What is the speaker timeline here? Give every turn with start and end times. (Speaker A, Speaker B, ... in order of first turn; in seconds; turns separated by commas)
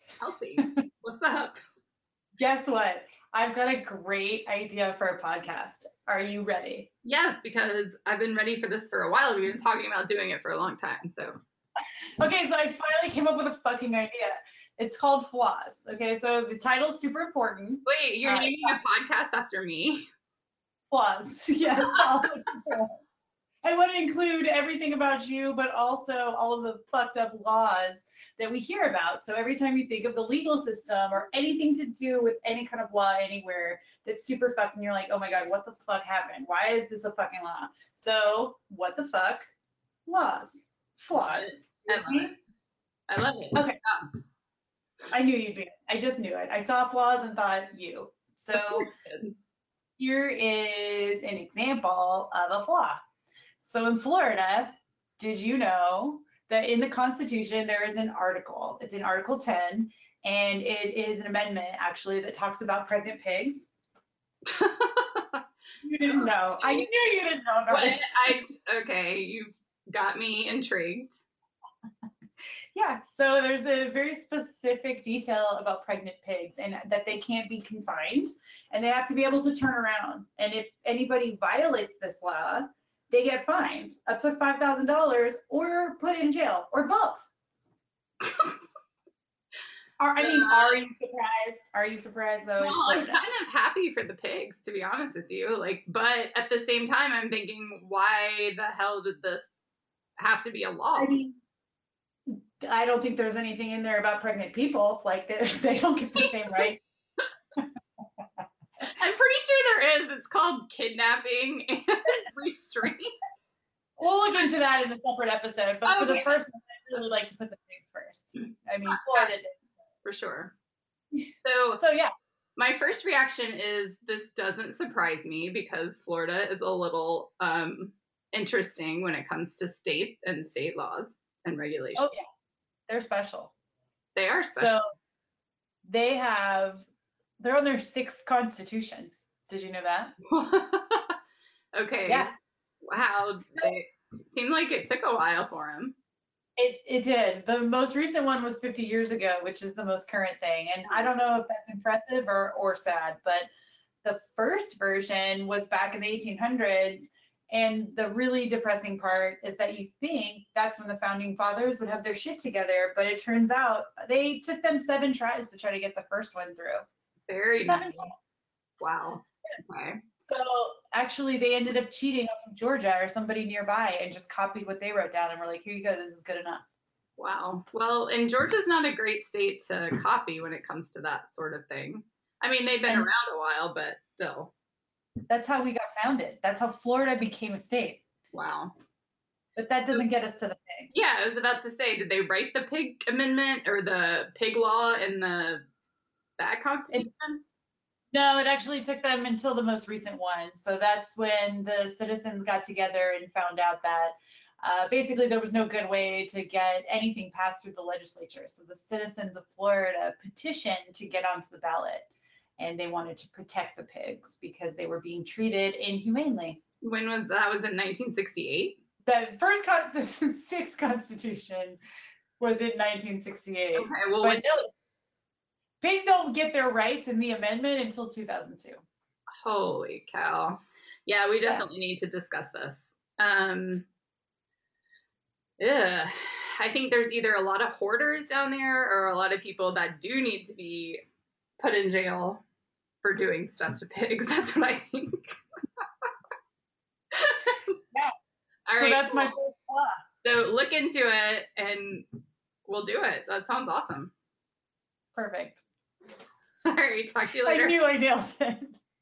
Speaker A: 0.2-1.6, Speaker B: 2.4-6.9, Speaker A: 7.0-11.3, Speaker B: 12.2-18.8, Speaker A: 17.9-20.1, Speaker B: 20.9-23.0, Speaker A: 21.8-22.3, Speaker B: 23.6-39.5, Speaker B: 40.1-42.4, Speaker A: 41.1-42.4, Speaker A: 43.1-44.1, Speaker B: 45.1-48.9, Speaker A: 48.5-49.4, Speaker B: 50.0-53.0, Speaker B: 53.6-63.7, Speaker A: 64.5-65.4, Speaker B: 65.8-68.3, Speaker A: 66.0-66.9, Speaker A: 67.7-71.2, Speaker B: 72.8-87.3, Speaker A: 88.2-88.6, Speaker B: 90.0-93.2, Speaker A: 90.2-90.8, Speaker A: 92.6-99.5, Speaker A: 100.2-101.2, Speaker B: 101.0-101.4, Speaker B: 102.3-106.8, Speaker A: 106.2-106.6, Speaker A: 109.0-113.1, Speaker B: 114.0-119.6, Speaker A: 115.8-116.3, Speaker A: 118.9-119.3, Speaker A: 120.0-120.5, Speaker A: 121.4-121.8, Speaker B: 121.7-122.1, Speaker A: 122.6-132.1, Speaker B: 132.0-132.2, Speaker B: 132.9-133.5, Speaker A: 134.2-134.8, Speaker B: 134.6-134.8, Speaker B: 135.8-136.9, Speaker B: 137.4-140.2, Speaker A: 140.3-141.2, Speaker A: 141.8-142.3, Speaker B: 142.1-142.3, Speaker A: 142.8-146.0, Speaker B: 146.6-153.5, Speaker B: 154.0-166.8, Speaker A: 167.3-168.1, Speaker B: 167.6-168.2, Speaker A: 168.8-170.0, Speaker B: 170.2-176.6, Speaker A: 177.2-184.5, Speaker B: 185.3-188.0, Speaker A: 188.3-188.7, Speaker B: 189.6-190.9, Speaker A: 190.9-195.6, Speaker A: 196.4-197.4, Speaker B: 198.1-216.6, Speaker A: 216.8-218.8, Speaker B: 219.1-221.8, Speaker B: 222.4-224.7, Speaker A: 223.8-224.4, Speaker B: 225.8-228.8, Speaker A: 229.4-233.9, Speaker A: 235.6-241.0, Speaker A: 241.6-242.4, Speaker A: 243.0-245.4, Speaker A: 247.1-247.6, Speaker A: 248.7-249.3, Speaker B: 248.8-250.0, Speaker A: 250.2-252.1, Speaker A: 252.7-254.1, Speaker B: 255.1-255.6, Speaker A: 256.7-257.8, Speaker B: 257.4-258.8